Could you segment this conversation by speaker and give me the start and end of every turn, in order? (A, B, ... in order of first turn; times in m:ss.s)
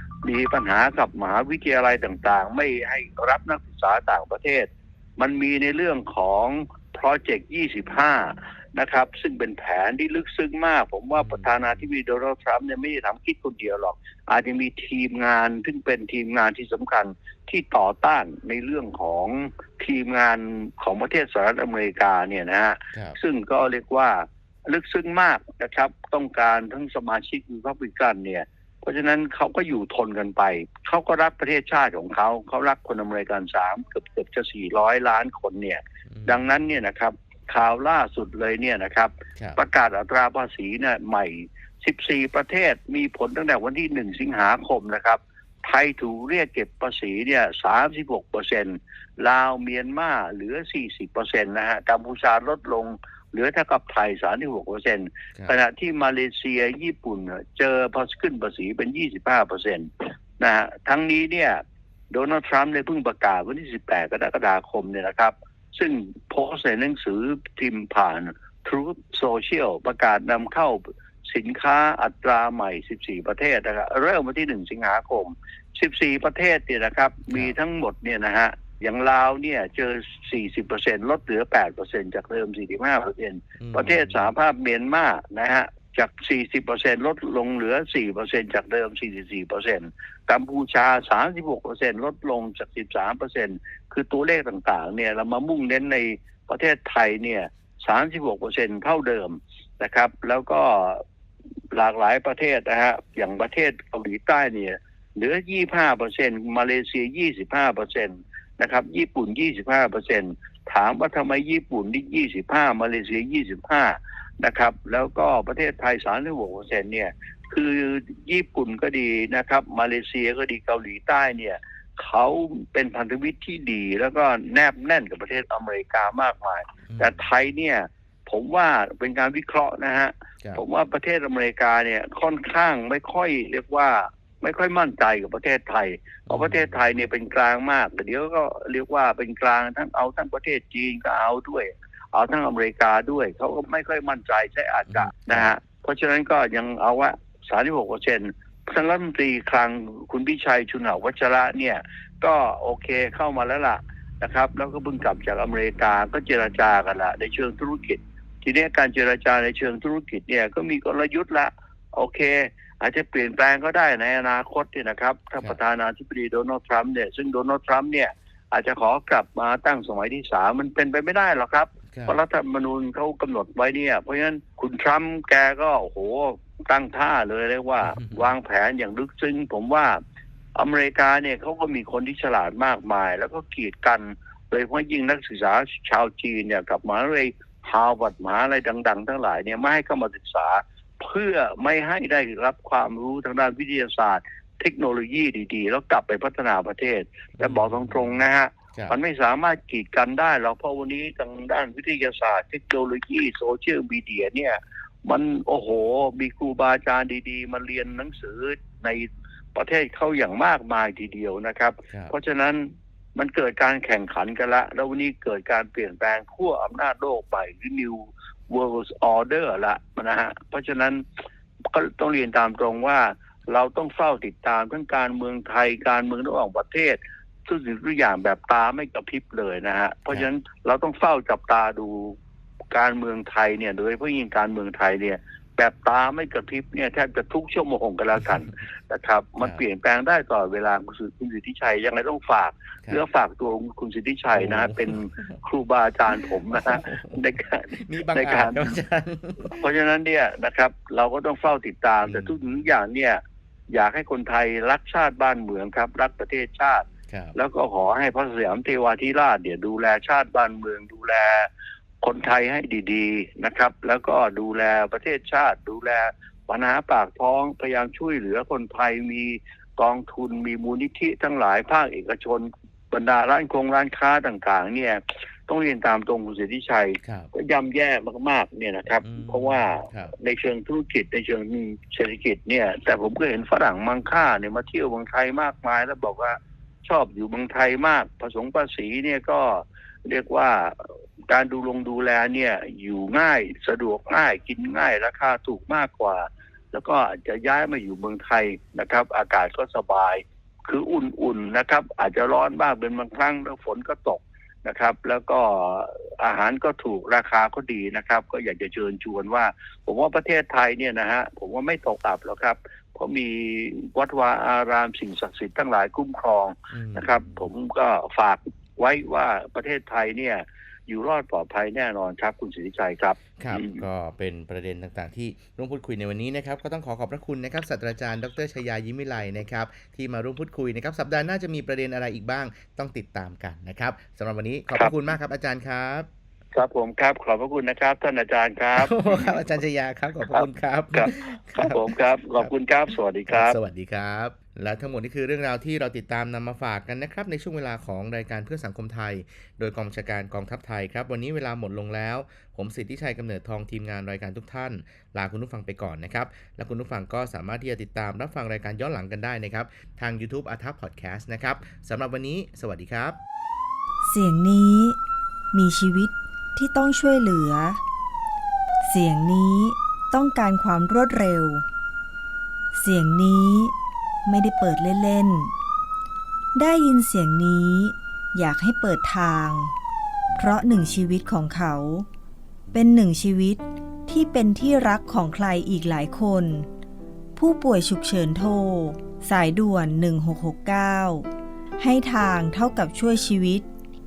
0:00.2-1:41.0 A
0:11.2-0:11.8 B
0:36.1-0:36.5 B
1:23.6-1:24.3 B
1:41.7-3:00.0 A
2:06.9-2:07.2 B
2:16.3-2:17.0 B
2:24.9-2:25.6 B
2:51.9-2:52.2 B
2:57.9-2:58.2 B
3:00.6-3:41.0 A
3:17.4-3:18.1 B
3:41.7-3:52.2 A
3:52.7-4:08.6 A
4:04.3-4:05.4 B
4:06.2-4:07.2 B
4:07.7-4:09.6 B
4:09.5-4:13.2 A
4:12.0-4:12.4 B
4:13.7-4:21.5 A
4:17.1-4:17.4 B
4:22.0-5:23.8 A
4:37.0-4:37.3 B
4:39.0-4:40.1 B
5:16.7-5:17.5 B
5:23.4-5:36.1 B
5:36.6-5:39.3 A
5:38.8-5:42.5 B
5:40.3-5:43.6 A
5:43.3-6:03.2 B
6:04.0-6:05.0 C
6:05.5-6:07.8 C
6:08.8-6:11.6 C
6:12.8-6:13.7 C
6:14.2-6:15.5 C
6:16.6-6:19.7 C
6:20.4-6:22.1 C
6:22.7-6:26.7 C
6:27.4-6:31.3 C
6:31.8-6:33.7 C